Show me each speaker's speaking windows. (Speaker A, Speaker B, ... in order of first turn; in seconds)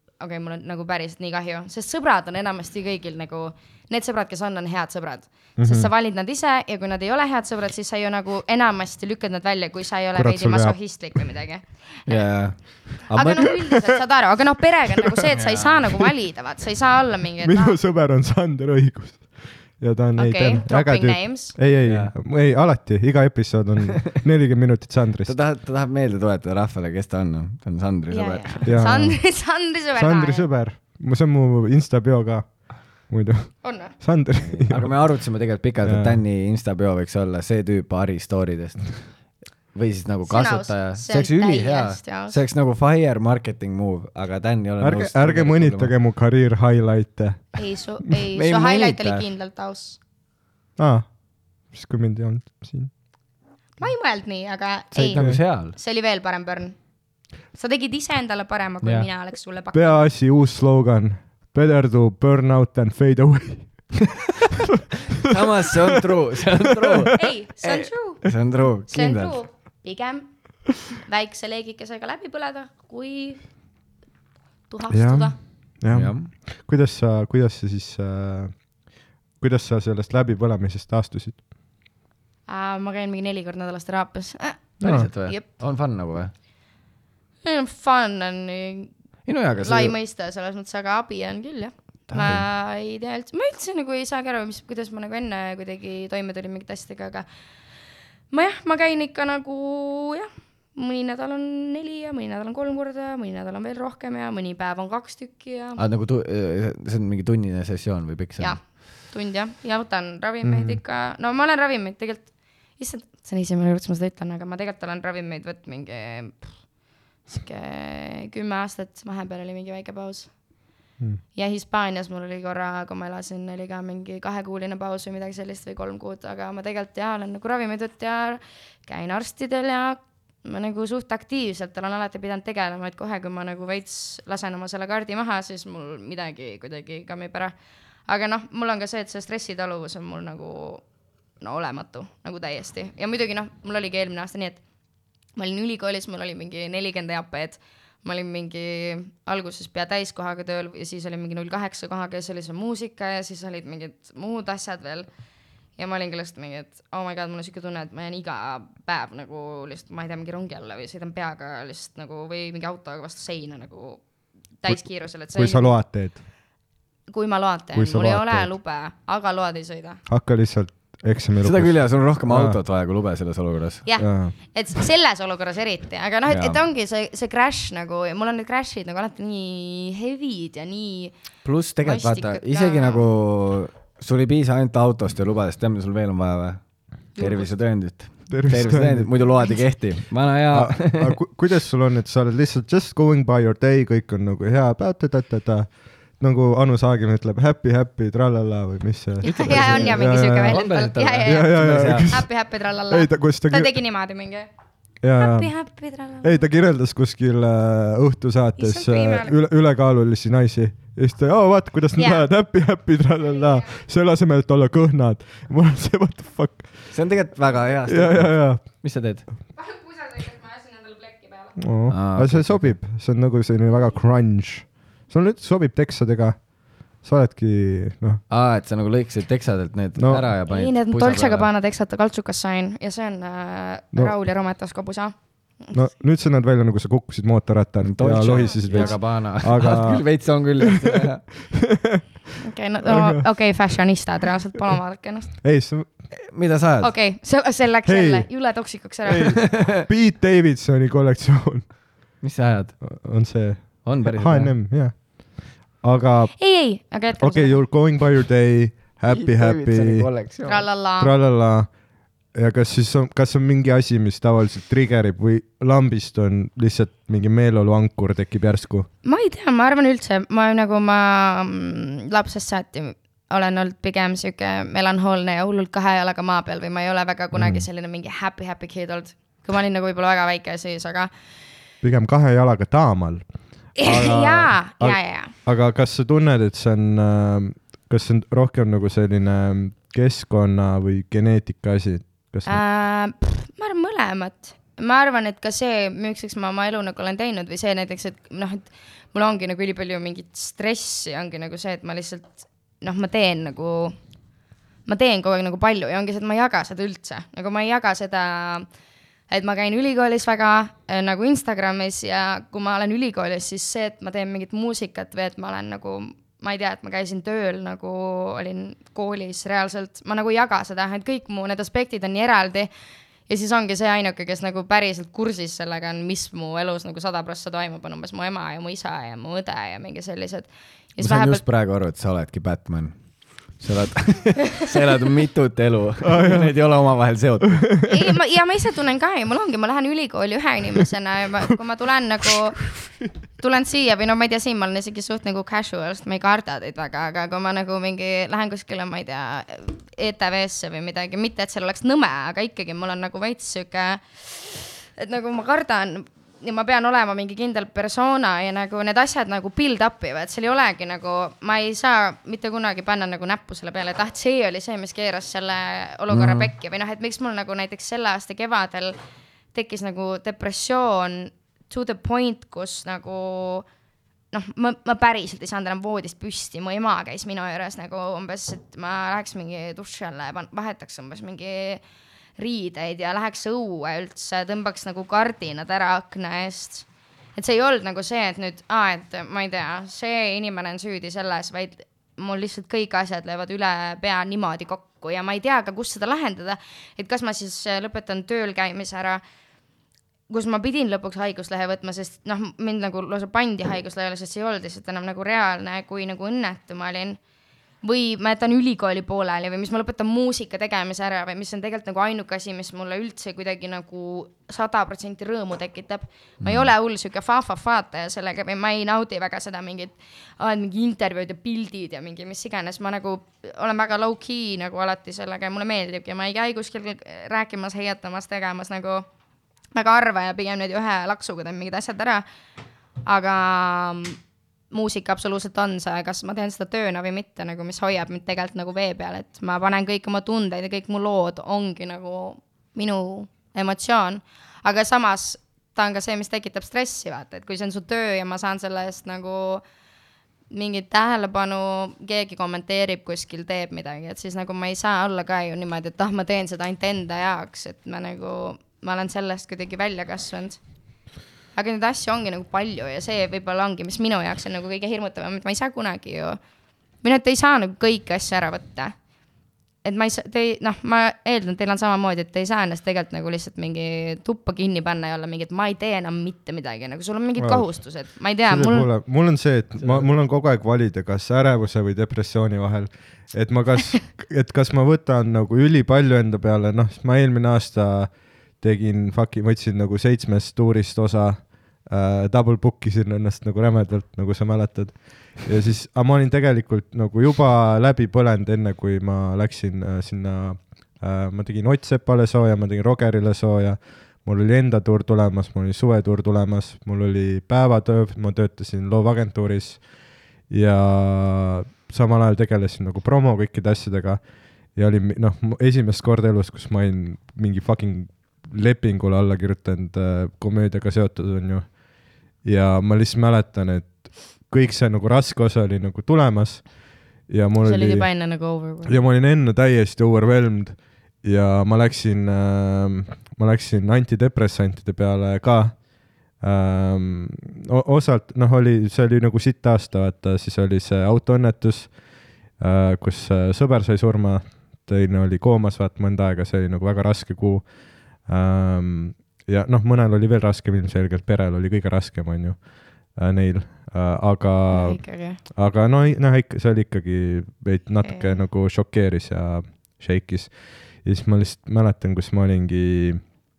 Speaker A: 0.2-17.8, 20.2-21.6, 28.1-30.5, 33.6-34.0, 40.3-42.4, 47.5-50.0, 53.8-56.8, 57.5-60.1, 67.1-68.2, 68.9-73.4, 74.7-75.4, 82.5-85.5, 87.4-88.9, 89.6-97.3, 98.3-105.8, 108.4-116.6, 117.3-120.3, 121.3-137.5, 138.1-140.8, 141.4-144.6, 145.4-155.1, 155.8-164.0, 164.6-165.8, 167.1-170.0, 173.9-181.2, 181.8-183.0, 187.2-187.5, 199.2-204.5, 205.2-206.4, 208.6-209.4, 212.0-212.2, 219.5-221.6, 230.5-235.7, 238.7-239.0, 242.4-245.3, 246.8-249.5, 256.4-257.6, 260.5-261.1, 269.0-281.1, 283.8-285.3, 292.5-304.0, 304.9-308.7, 309.3-322.7, 323.3-331.4, 337.9-342.7, 343.4-369.0, 369.5-373.7, 374.3-381.8, 382.4-399.2, 400.3-407.2, 407.8-429.1, 429.7-432.2, 433.1-434.2, 434.7-449.6, 450.5-460.6, 461.5-466.4, 467.0-469.0, 469.8-478.9, 527.6-529.0, 554.7-555.4, 558.0-558.4
Speaker B: 5.6-5.9, 10.1-10.8, 17.4-25.4, 28.6-29.4, 29.9-35.1, 35.8-36.2, 44.8-47.6, 50.8-51.2, 51.7-52.9, 55.1-55.4, 59.7-64.6, 65.2-66.0, 66.8-67.1, 74.9-78.8, 79.4-81.4, 84.8-85.1, 110.4-110.8, 164.7-166.2, 167.7-168.6, 170.1-172.6, 174.0-174.3, 188.3-189.2, 190.5-200.6, 201.2-203.8, 205.0-205.6, 206.2-217.0, 217.9-218.8, 221.6-228.2, 230.0-230.3, 235.7-242.0, 242.8-243.2, 245.4-245.9, 247.9-248.3, 249.3-251.7, 252.8-256.5, 257.2-260.1, 261.0-261.7, 262.3-268.9, 277.3-277.7, 281.8-292.6, 336.0-336.6, 337.6-337.9, 477.4-509.9, 510.5-521.8, 522.4-528.1, 528.8-542.0, 542.6-563.2
Speaker C: 12.1-13.6, 15.4-15.9, 21.8-22.1, 25.3-28.8, 34.5-39.2, 39.7-45.9, 48.4-49.3, 54.9-55.8, 65.2-69.4, 75.9-76.3, 84.8-86.3, 89.3-90.0, 92.1-92.4, 105.8-108.6, 171.4-173.9, 176.3-176.6, 181.4-186.6, 187.2-191.2, 199.2-202.1, 216.9-219.3, 221.9-222.8, 228.3-231.5, 237.9-241.3, 246.2-246.9, 249.1-249.9, 252.2-252.8, 253.8-254.6, 259.1-260.7, 331.0-333.0, 333.5-337.8, 416.4-416.7, 479.8-480.1